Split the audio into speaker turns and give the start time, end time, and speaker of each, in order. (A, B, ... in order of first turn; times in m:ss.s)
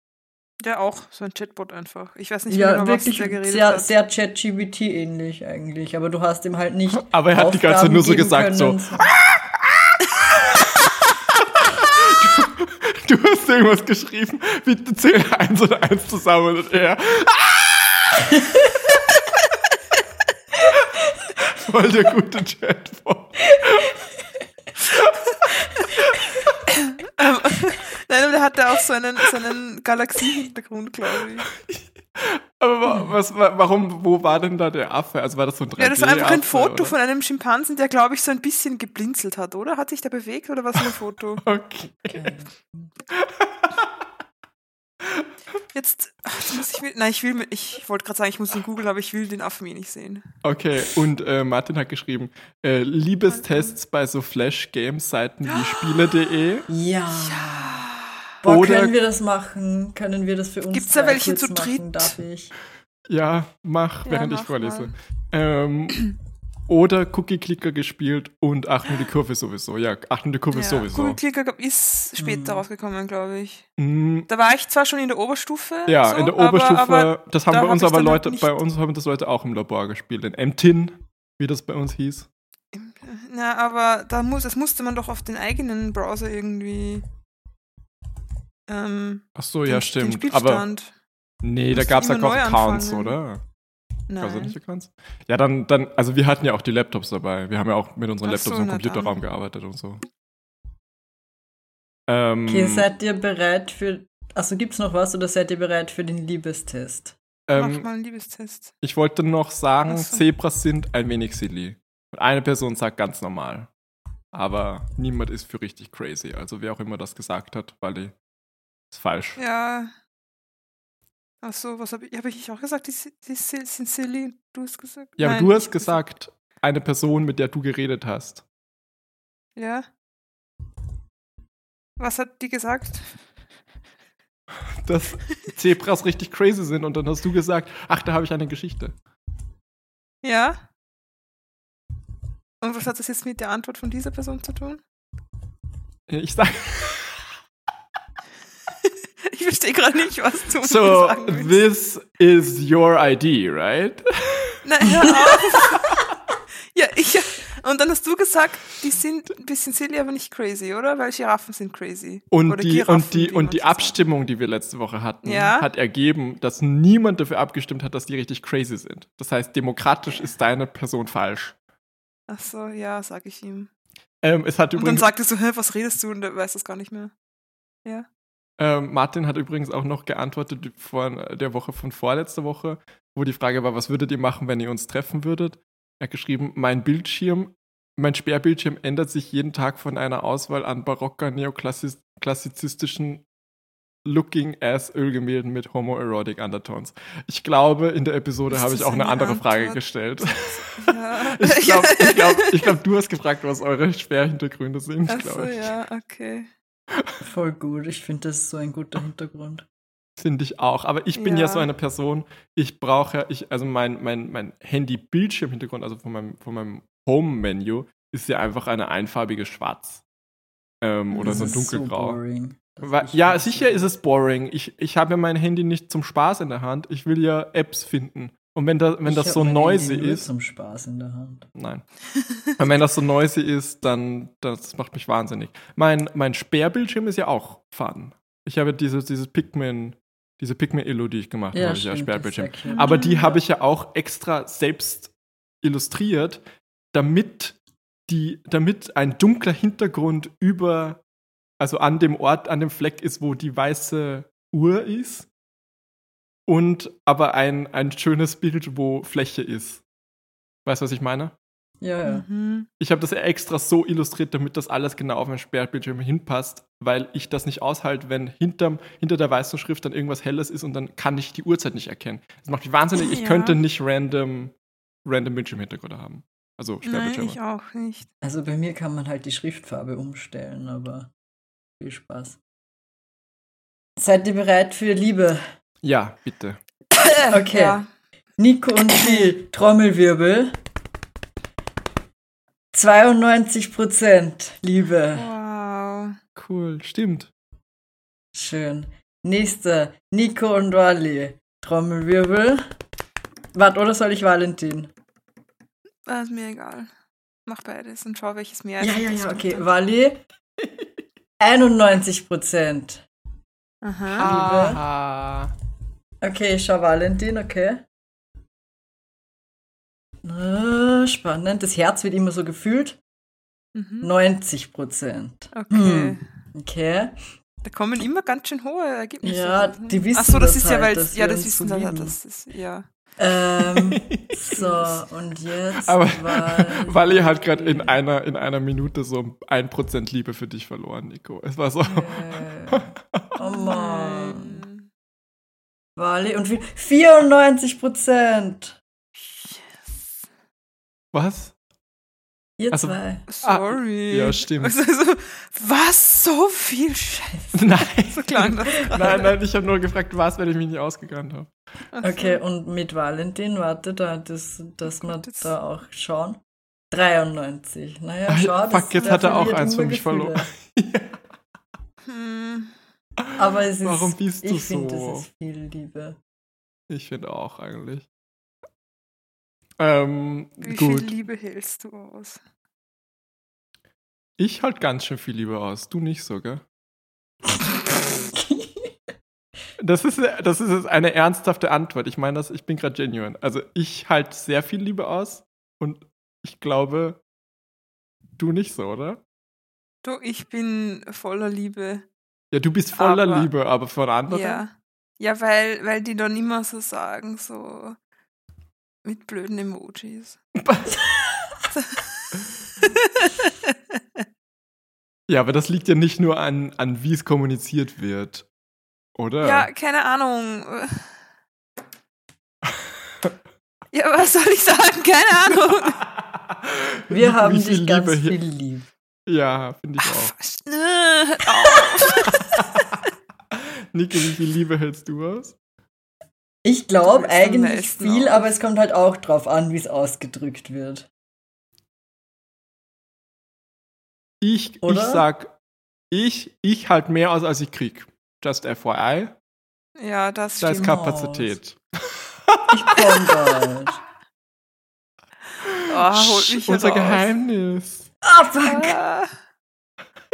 0:00.6-0:03.9 A
0:02.5-0:09.1 B
0:06.9-0:10.7 C
0:11.6-0:18.4 C
0:21.4-0:23.9 C
0:26.8-0:31.5 A
0:31.7-0:37.0 C
0:35.8-0:41.4 A
0:41.4-0:42.4 C
0:42.1-0:42.9 B
0:43.1-0:43.9 C
0:45.7-0:50.3 A
0:50.4-0:56.7 C
0:55.4-0:56.2 A
0:56.7-0:57.8 B
0:57.1-0:58.1 A
0:58.4-1:02.5 B
0:58.4-0:58.9 C
1:00.7-1:02.2 A
1:03.1-1:06.1 C
1:04.0-1:04.9 A
1:06.7-1:11.2 C
1:10.5-1:13.6 A
1:12.2-1:12.6 B
1:13.8-1:14.3 C
1:14.3-1:18.5 A
1:15.9-1:22.3 C
1:22.7-1:27.0 A
1:28.7-1:30.9 A
1:29.4-1:30.6 C
1:31.4-1:33.4 C
1:31.7-1:33.2 A
1:34.1-1:34.6 A
1:34.2-1:40.0 C
1:38.2-1:39.1 A
1:42.1-1:42.8 C
1:42.5-1:47.2 B
1:47.5-1:47.9 C
1:47.5-1:48.7 A
1:48.8-1:53.7 C
1:49.9-1:50.2 A
1:54.3-1:58.1 C
1:58.9-1:59.4 C
1:59.4-1:59.9 A
2:01.4-2:06.0 A
2:05.2-2:08.4 C
2:09.6-2:09.9 A
2:12.0-2:13.2 A
2:14.8-2:18.9 C
2:20.2-2:20.6 A
2:22.6-2:24.8 A
2:26.1-2:27.2 C
2:28.8-2:31.6 A
2:30.6-2:35.0 C
2:34.6-2:35.9 A
2:36.7-2:44.0 A
2:42.3-2:51.5 C
2:45.2-2:45.7 A
2:52.3-2:53.7 A
2:54.2-2:55.1 C
2:54.7-2:57.1 A
2:58.6-3:13.2 C
3:14.0-3:25.7 C
3:18.5-3:22.8 A
3:25.1-3:26.5 A
3:27.2-3:29.6 B
3:30.2-3:40.0 C
3:31.2-3:31.6 A
3:40.8-3:42.2 C
3:41.1-3:41.5 A
3:41.2-3:43.9 B
3:42.8-3:50.3 C
3:49.0-3:51.5 B
3:51.6-3:51.8 C
3:52.5-4:06.4 C
4:01.5-4:03.0 B
4:02.7-4:03.3 A
4:06.9-4:07.5 C
4:08.1-4:11.0 C
4:11.6-4:15.3 C
4:16.5-4:19.8 C
4:20.6-4:21.3 C
4:21.8-4:22.2 B
4:22.0-4:22.7 A
4:22.8-4:34.5 C
4:33.0-4:33.6 A
4:35.0-4:37.4 C
4:36.8-4:38.1 A
4:38.2-4:41.1 B
4:41.8-4:42.4 B
4:44.0-4:45.4 B
4:45.8-4:46.6 C
4:46.9-4:47.9 A
4:47.3-4:47.8 B
4:48.4-4:50.6 B
4:48.9-4:49.3 A
4:52.7-4:55.3 B
4:55.1-4:56.2 A
4:56.4-4:57.3 C
4:58.3-5:02.6 B
5:03.5-5:04.9 B
5:06.0-5:06.9 A
5:07.4-5:09.6 A
5:08.8-5:10.2 B
5:11.4-5:13.0 B
5:13.8-5:14.3 A
5:14.2-5:14.8 B
5:14.2-5:15.5 C
5:16.2-5:17.8 B
5:20.2-5:23.0 B
5:23.7-5:24.1 A
5:24.0-5:27.1 B
5:25.5-5:26.2 A
5:27.6-5:32.9 A
5:29.2-5:32.2 B
5:33.2-5:38.0 B
5:33.7-5:34.4 C
5:34.5-5:34.9 A
5:35.8-5:43.2 C
5:41.8-5:44.6 B
5:43.4-5:44.8 A
5:46.0-5:48.8 B
5:49.2-5:49.8 A
5:51.1-5:51.5 C
5:52.6-5:53.2 B
5:52.7-5:54.8 C
5:53.3-5:59.3 A
5:57.5-6:01.5 C
6:01.9-6:02.4 A
6:02.0-6:06.4 B
6:05.0-6:05.5 A
6:06.9-6:10.5 B
6:08.3-6:11.2 C
6:09.0-6:09.5 A
6:12.0-6:12.7 A
6:13.3-6:15.2 C
6:13.4-6:16.2 B
6:16.9-6:18.0 C
6:19.8-6:21.1 C
6:20.6-6:22.4 A
6:24.4-6:26.6 C
6:28.3-6:28.9 B
6:29.8-6:37.2 C
6:38.4-6:39.2 C
6:40.0-6:42.0 A
6:42.5-6:44.6 C
6:43.0-6:43.5 A
6:44.3-6:48.0 A
6:49.0-6:50.4 A
6:50.6-6:51.0 C
6:51.7-6:52.2 A
6:52.8-6:53.7 A
6:55.3-6:58.4 C
6:59.2-6:59.7 C
6:59.4-7:01.1 A
7:03.9-7:06.0 A
7:06.5-7:08.4 C
7:07.1-7:08.9 B
7:09.3-7:10.3 C
7:10.0-7:12.6 A
7:12.2-7:12.6 C
7:13.5-7:15.6 C
7:16.6-7:21.1 B
7:17.0-7:18.5 A
7:24.4-7:25.5 C
7:24.8-7:25.2 B
7:26.1-7:29.3 C
7:30.0-7:31.0 A
7:30.6-7:31.8 C
7:30.7-7:31.6 B
7:32.5-7:33.4 C
7:32.7-7:34.0 B
7:35.7-7:38.0 C
7:35.8-7:37.3 A
7:38.2-7:39.0 B
7:38.6-7:39.3 A